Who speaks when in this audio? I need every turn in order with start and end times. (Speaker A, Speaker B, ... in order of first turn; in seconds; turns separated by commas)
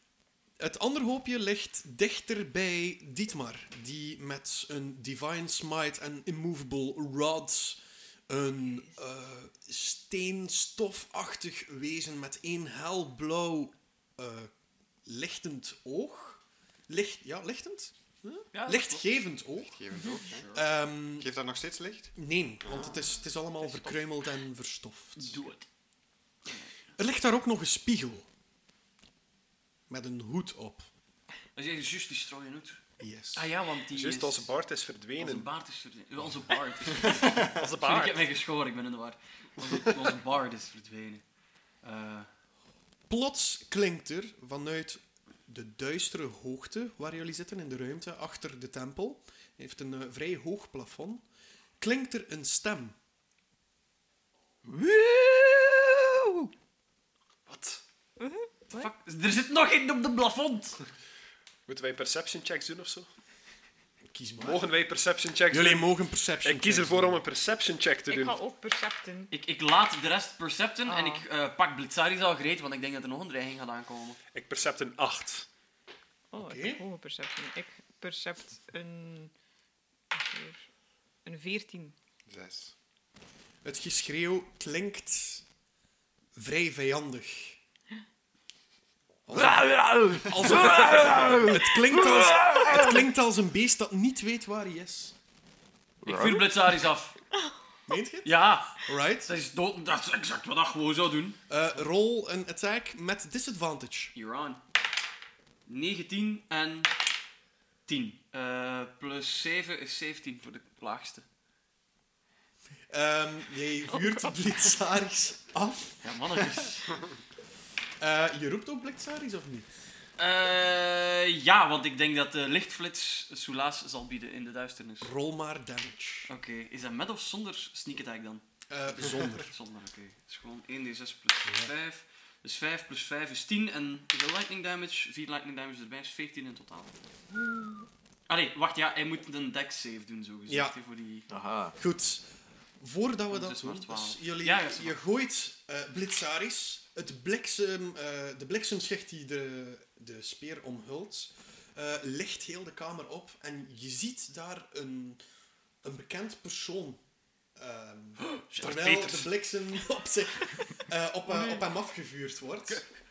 Speaker A: 0.6-14.5, Speaker A: 15.1-21.3, Speaker B: 18.5-19.1, Speaker C: 19.6-20.5, Speaker B: 20.1-20.6, Speaker C: 21.1-23.2, Speaker A: 22.1-25.4, Speaker B: 25.2-25.7, Speaker A: 27.0-28.3, Speaker A: 29.9-30.9, Speaker B: 31.6-34.5, Speaker A: 33.0-33.5, Speaker D: 33.9-35.5, Speaker B: 35.2-41.2, Speaker D: 37.5-38.2, Speaker B: 41.8-42.3, Speaker A: 43.1-51.2, Speaker A: 51.8-53.0, Speaker E: 54.6-56.5, Speaker D: 57.5-57.8, Speaker F: 58.2-58.9, Speaker B: 58.7-60.8, Speaker D: 61.7-63.1, Speaker A: 64.1-64.7, Speaker D: 64.4-65.9, Speaker A: 65.5-67.2, Speaker D: 66.4-68.4, Speaker F: 68.1-69.3, Speaker B: 69.3-74.2, Speaker F: 70.9-71.2, Speaker D: 74.3-75.5, Speaker F: 76.3-79.3, Speaker A: 76.4-76.8, Speaker F: 80.1-80.7, Speaker F: 81.2-82.0, Speaker C: 82.3-82.7, Speaker A: 83.6-85.5, Speaker A: 86.4-87.6, Speaker A: 89.3-95.2, Speaker E: 89.3-93.1, Speaker E: 96.0-96.7, Speaker B: 96.0-97.2, Speaker A: 97.9-99.3, Speaker B: 98.2-101.4, Speaker A: 101.5-104.2, Speaker B: 104.2-104.6, Speaker B: 105.7-106.9, Speaker B: 107.9-111.2, Speaker A: 112.9-116.4, Speaker B: 116.0-116.9, Speaker A: 118.0-119.7, Speaker B: 120.2-125.1, Speaker A: 125.0-126.3, Speaker B: 126.3-136.9, Speaker A: 128.7-129.5, Speaker A: 131.5-131.7, Speaker B: 138.3-141.3, Speaker A: 140.5-140.8, Speaker E: 141.3-141.8, Speaker A: 141.8-155.2, Speaker B: 143.3-145.0, Speaker A: 155.8-157.0, Speaker A: 157.6-162.8, Speaker B: 158.3-159.3, Speaker D: 158.6-159.1, Speaker B: 161.3-161.6